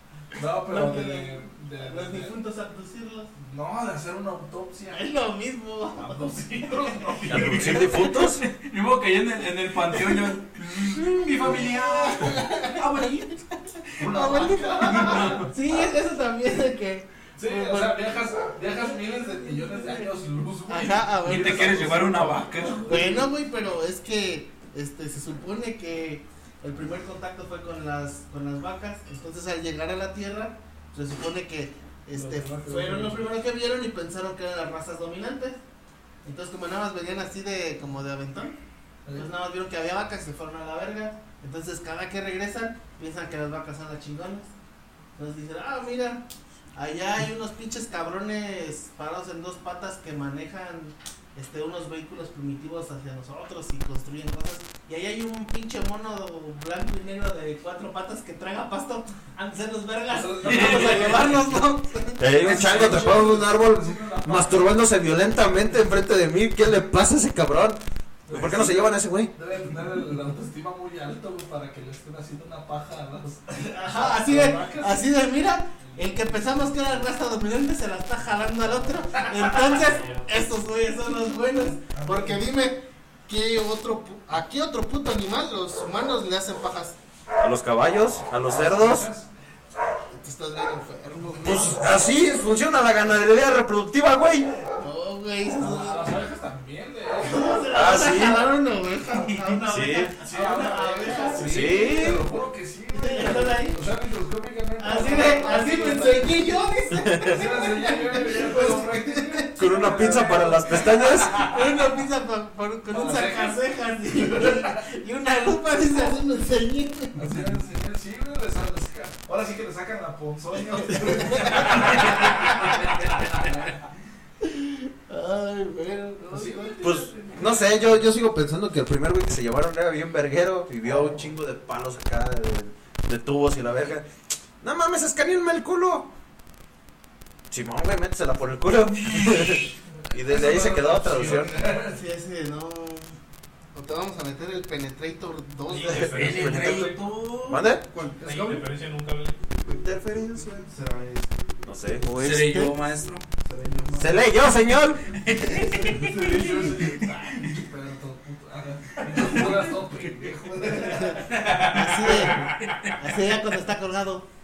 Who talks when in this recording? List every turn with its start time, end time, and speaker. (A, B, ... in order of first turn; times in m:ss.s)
0:00.3-0:02.4 A
0:00.7-0:03.3 B
0:03.4-0:05.0 A
0:04.9-0:07.8 B
0:06.0-0:08.0 A
0:07.3-0:08.4 C
0:08.2-0:13.3 D
0:10.9-0:18.1 B
0:14.0-0:15.5 A
0:15.1-0:15.5 D
0:17.4-0:23.3 A
0:19.7-0:20.0 B
0:20.7-0:22.2 B
0:21.2-0:23.0 D
0:22.8-0:35.6 B
0:32.1-0:33.3 A
0:36.2-0:38.6 B
0:39.1-0:44.5 B
0:45.2-1:02.6 B
1:00.1-1:01.6 A
1:00.5-1:01.0 D
1:02.2-1:09.3 C
1:02.2-1:05.0 A
1:08.3-1:15.0 A
1:13.6-1:27.0 B
1:15.8-1:16.8 A
1:21.9-1:22.4 A
1:27.4-1:29.1 C
1:28.4-1:29.3 A
1:30.1-1:31.9 B
1:31.4-1:34.5 C
1:34.8-1:36.2 B
1:35.6-1:37.6 A
1:37.2-1:41.9 B
1:37.7-1:38.5 C
1:39.1-1:51.6 A
1:39.7-1:40.1 C
1:41.4-1:42.2 C
1:42.9-1:43.8 B
1:44.8-1:57.2 B
1:46.9-1:47.4 C
1:49.6-1:51.3 C
1:52.9-1:53.6 A
1:54.2-1:54.7 A
1:57.2-2:02.5 A
1:57.2-1:57.5 D
2:01.0-2:02.5 B
2:04.4-2:06.8 B
2:06.2-2:08.1 A
2:06.8-2:14.1 C
2:14.6-2:16.1 C
2:17.5-2:21.5 C
2:20.2-2:22.0 A
2:21.7-2:23.1 B
2:23.7-2:26.3 B
2:25.7-2:27.1 E
2:25.8-2:26.9 C
2:26.1-2:28.6 D
2:27.4-2:27.8 C
2:28.2-2:29.4 E
2:29.6-2:30.7 C
2:30.6-2:31.3 A
2:31.6-2:32.0 C
2:32.0-2:32.8 B
2:32.1-2:33.2 D
2:33.4-2:34.1 A
2:34.0-2:35.0 C
2:35.1-2:36.8 D
2:35.5-2:41.4 A
2:35.5-2:36.0 B
2:37.4-2:37.6 D
2:39.0-2:39.6 D
2:40.6-2:44.3 B
2:41.4-2:42.5 E
2:41.5-2:41.9 D
2:42.6-2:43.0 D